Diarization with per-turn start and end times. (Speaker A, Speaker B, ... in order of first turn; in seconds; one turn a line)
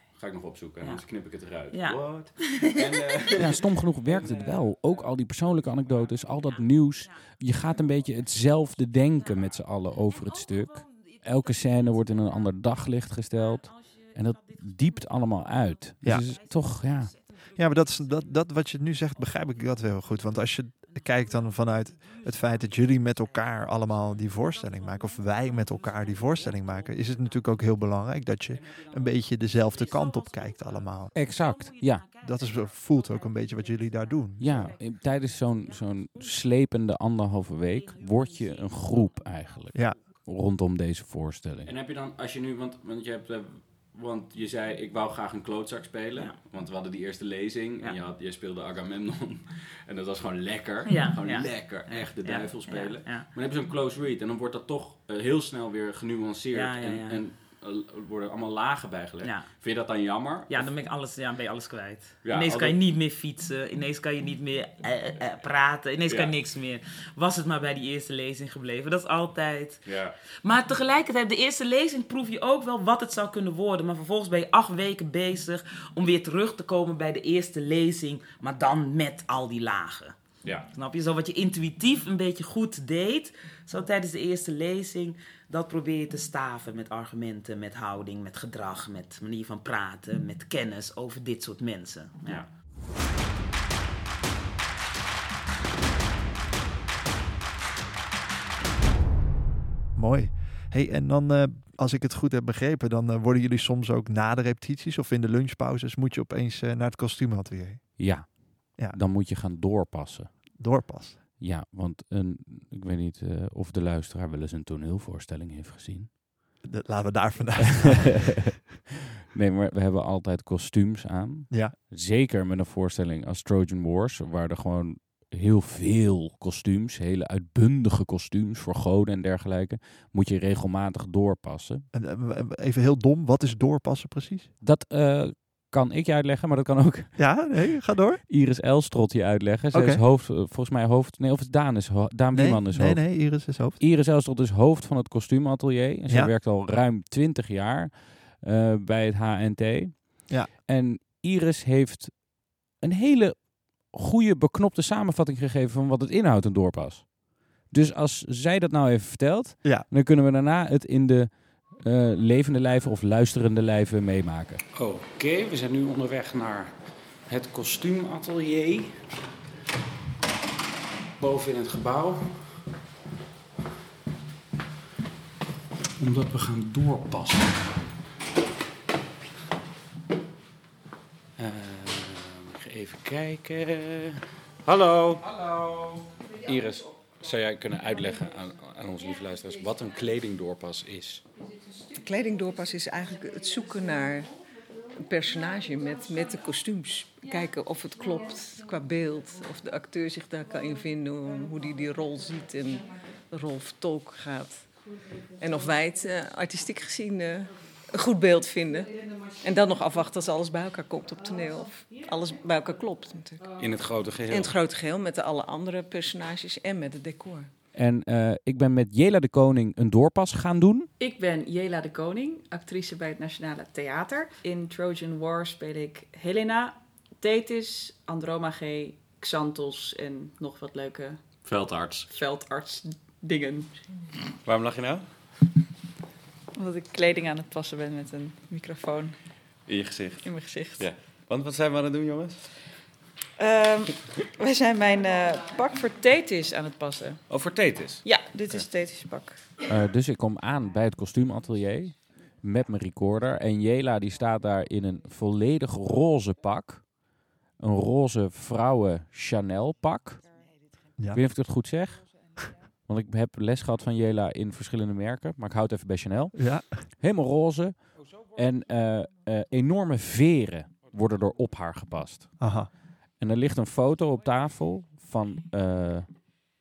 Speaker A: 0.2-4.9
Speaker B: 1.7-3.6
Speaker C: 3.4-17.1
Speaker B: 6.3-7.4
Speaker B: 9.2-9.6
Speaker B: 10.4-12.2
Speaker B: 13.7-14.6
Speaker B: 16.1-17.6
Speaker D: 17.6-31.1
Speaker B: 29.9-30.2
Speaker B: 31.1-32.7
Speaker C: 31.1-32.0
Speaker D: 32.2-34.8
Speaker C: 34.4-41.7
Speaker B: 34.4-35.9
Speaker B: 37.9-38.9
Speaker A: 41.7-60.7
Speaker B: 50.9-53.3
Speaker B: 56.5-57.2
Speaker B: 59.2-59.5
Speaker B: 60.5-69.9
Speaker A: 62.2-62.8
Speaker A: 66.1-66.3
Speaker A: 69.8-70.1
Speaker B: 70.4-80.2
Speaker B: 80.7-92.5
Speaker D: 100.0-108.2
Speaker C: 108.0-110.3
Speaker D: 110.6-111.2
Speaker C: 111.4-116.1
Speaker D: 116.6-118.3
Speaker C: 117.8-118.5
Speaker C: 119.3-131.9
Speaker D: 121.5-121.8
Speaker D: 131.9-134.5
Speaker C: 134.6-137.3
Speaker D: 137.2-138.2
Speaker C: 138.3-152.2
Speaker D: 139.7-140.0
Speaker D: 142.3-143.8
Speaker C: 152.8-157.1
Speaker C: 157.7-164.6
Speaker A: 164.7-166.7
Speaker A: 167.3-168.9
Speaker A: 171.2-172.3
Speaker A: 176.0-177.5
Speaker A: 181.4-184.1
Speaker A: 184.7-185.8
Speaker A: 186.4-191.2
Speaker E: 191.9-194.3
Speaker E: 194.9-204.7
Speaker E: 205.4-213.4
Speaker A: 213.6-214.5
Speaker E: 214.3-217.5
Speaker C: 217.8-220.9
Speaker F: 221.0-231.2
Speaker A: 231.4-232.1
Speaker F: 232.1-233.7
Speaker A: 234.5-235.1
Speaker F: 236.6-239.2
Speaker A: 239.7-240.3
Speaker F: 240.2-240.9
Speaker A: 240.8-242.3
Speaker F: 243.4-247.2
Speaker A: 247.3-248.6
Speaker F: 248.0-249.4
Speaker C: 249.7-256.9
Speaker C: 257.6-260.2
Speaker C: 261.1-262.0
Speaker C: 262.9-266.4
Speaker D: 266.3-266.8
Speaker C: 266.9-272.3
Speaker D: 272.4-272.7
Speaker C: 273.2-276.1